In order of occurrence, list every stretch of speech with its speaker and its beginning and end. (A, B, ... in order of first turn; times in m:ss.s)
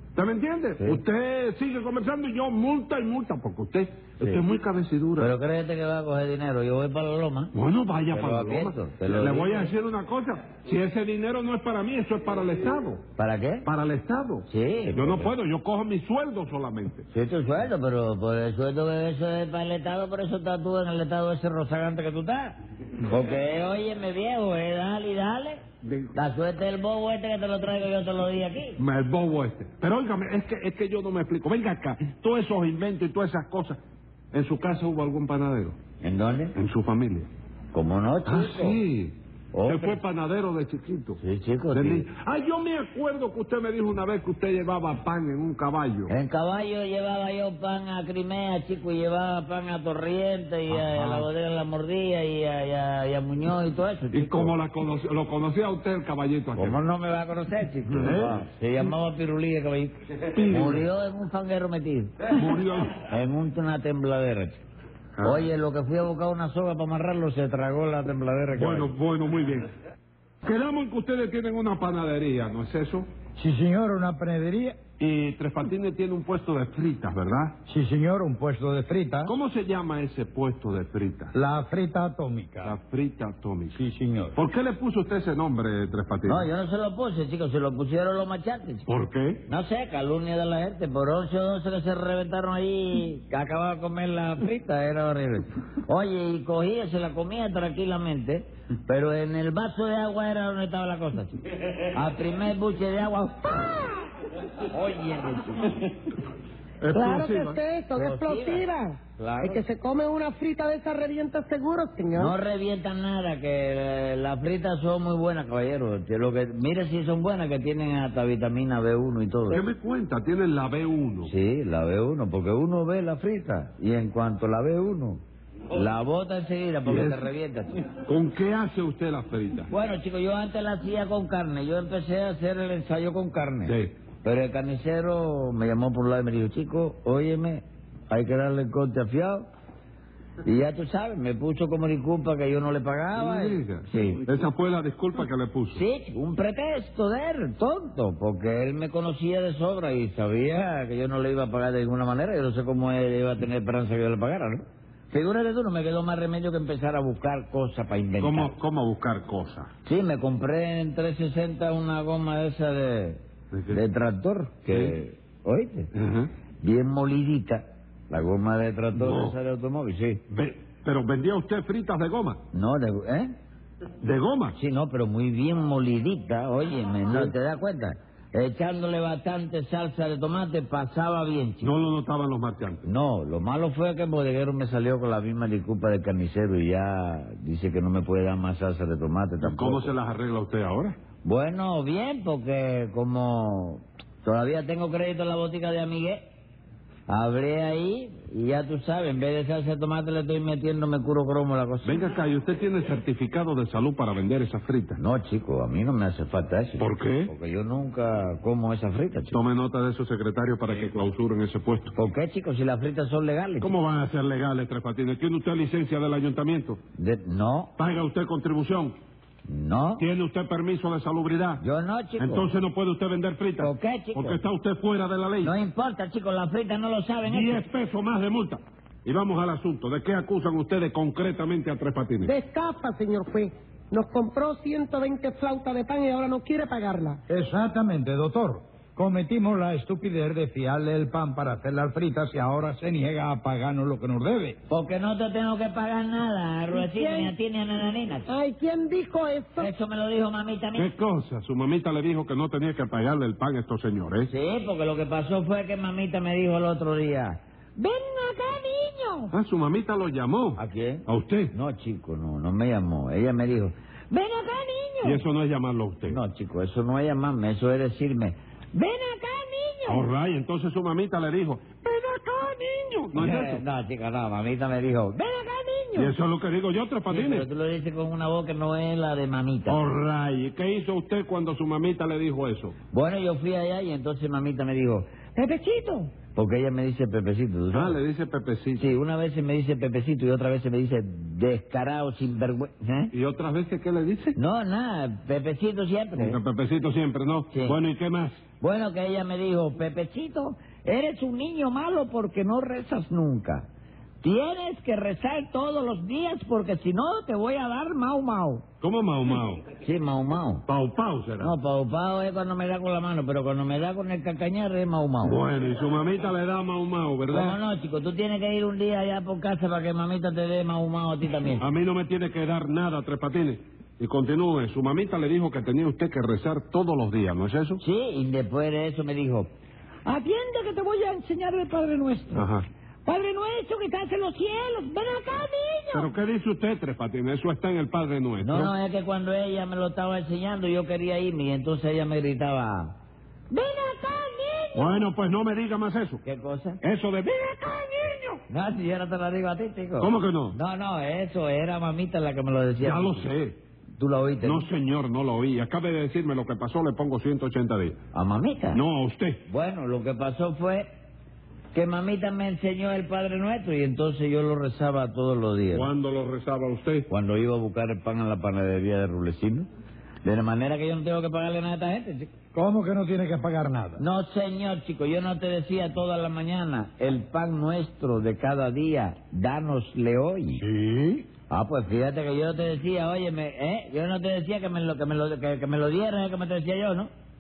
0:00.2-0:05.3 A
0:05.2-0:07.5 B
0:07.5-0:13.0 A
0:08.1-0:09.7 B
0:13.2-0:13.7 B
0:13.6-0:17.1 A
0:14.5-0:15.3 B
0:17.1-0:25.6 B
0:25.8-0:26.1 A
0:26.1-0:28.8 B
0:28.8-0:33.8 A
0:34.3-0:35.8 A
0:36.0-0:36.5 B
0:36.5-0:37.3 A
0:37.7-0:38.8 B
0:38.3-0:41.2 A
0:39.5-0:40.0 B
0:41.2-0:42.1 B
0:41.7-0:46.1 A
0:46.1-0:54.5 B
0:50.8-0:51.2 A
0:54.1-0:56.8 A
0:56.6-1:00.0 B
0:57.9-0:58.4 A
1:00.3-1:00.8 A
1:00.5-1:02.4 B
1:02.3-1:02.9 A
1:02.9-1:04.6 B
1:05.2-1:05.4 A
1:05.2-1:08.9 B
1:08.5-1:09.7 A
1:10.4-1:13.1 A
1:13.4-1:14.8 C
1:15.0-1:17.6 A
1:17.7-1:19.3 C
1:19.2-1:21.3 A
1:21.3-1:22.8 C
1:22.6-1:23.8 A
1:23.7-1:24.4 C
1:24.4-1:26.5 A
1:26.2-1:28.8 B
1:28.9-1:29.4 A
1:29.5-1:43.8 B
1:44.7-1:45.8 B
1:46.8-1:47.6 A
1:46.9-1:52.4 D
1:48.0-1:49.6 B
1:52.1-1:59.6 B
1:59.5-2:01.3 A
2:01.2-2:07.8 B
2:06.8-2:07.2 A
2:08.0-2:09.7 A
2:09.7-2:19.5 B
2:13.6-2:13.9 A
2:20.4-2:24.2 B
2:23.1-2:25.8 A
2:25.7-2:38.5 B
2:38.2-2:39.7 A
2:39.8-2:45.9 B
2:43.5-2:43.8 A
2:44.7-2:44.9 A
2:45.9-2:46.3 A
2:46.6-2:50.2 B
2:48.9-2:49.4 A
2:50.3-2:52.4 A
2:52.5-2:53.3 B
2:54.0-2:54.6 A
2:54.5-3:01.7 B
3:01.6-3:02.8 A
3:02.8-3:09.9 B
3:09.4-3:11.0 A
3:11.2-3:16.2 B
3:17.1-3:22.0 B
3:21.8-3:25.0 A
3:25.0-3:29.4 B
3:26.8-3:27.3 A
3:29.3-3:31.9 A
3:31.9-3:33.7 B
3:33.6-3:36.8 A
3:37.0-3:37.7 B
3:37.8-3:38.9 A
3:39.4-3:40.0 B
3:40.0-3:41.6 A
3:41.6-3:42.5 B
3:42.2-3:45.6 A
3:43.6-3:44.4 B
3:45.4-3:47.7 B
3:47.3-3:52.3 A
3:52.2-3:57.2 D
3:57.3-4:04.6 C
4:04.7-4:08.3 B
4:06.7-4:07.3 D
4:08.3-4:09.7 D
4:09.6-4:10.9 B
4:10.7-4:14.3 A
4:14.3-4:17.4 B
4:17.8-4:19.0 E
4:19.3-4:21.5 A
4:20.6-4:23.7 B
4:25.0-4:26.2 A
4:26.1-4:28.4 B
4:28.7-4:29.7 E
4:29.8-4:33.6 A
4:33.1-4:35.4 B
4:35.9-4:37.4 A
4:37.1-4:39.8 B
4:39.7-4:42.8 A
4:42.9-4:45.1 B
4:45.4-4:46.1 D
4:45.5-4:46.0 E
4:46.3-4:48.0 B
4:47.7-4:48.8 A
4:48.8-4:53.1 B
4:53.1-4:54.4 A
4:54.4-4:56.4 B
4:56.2-4:58.4 A
4:57.5-4:57.8 B
4:58.6-5:03.7 B
5:04.2-5:08.6 B
5:08.8-5:09.6 A
5:09.8-5:10.6 B
5:10.7-5:11.6 A
5:11.4-5:15.4 B
5:15.2-5:17.6 A
5:17.3-5:21.6 B
5:21.6-5:27.8 A
5:27.8-5:29.5 B
5:30.0-5:32.4 E
5:32.3-5:32.6 A
5:33.0-5:36.0 E
5:35.9-5:38.7 A
5:38.4-5:43.0 B
5:43.5-5:44.8 E
5:44.7-5:46.2 A
5:46.2-5:46.8 B
5:46.8-5:48.4 A
5:48.5-5:53.3 B
5:50.0-5:50.6 A
5:52.8-5:53.6 A
5:54.0-5:54.7 B
5:54.4-5:58.0 A
5:58.1-5:58.8 B
5:58.7-5:59.4 A
5:59.5-6:00.9 B
6:01.7-6:05.9 B
6:05.7-6:07.1 A
6:07.1-6:09.7 B
6:10.2-6:12.3 B
6:12.5-6:14.0 C
6:14.0-6:20.6 B
6:20.6-6:21.3 C
6:21.5-6:27.1 B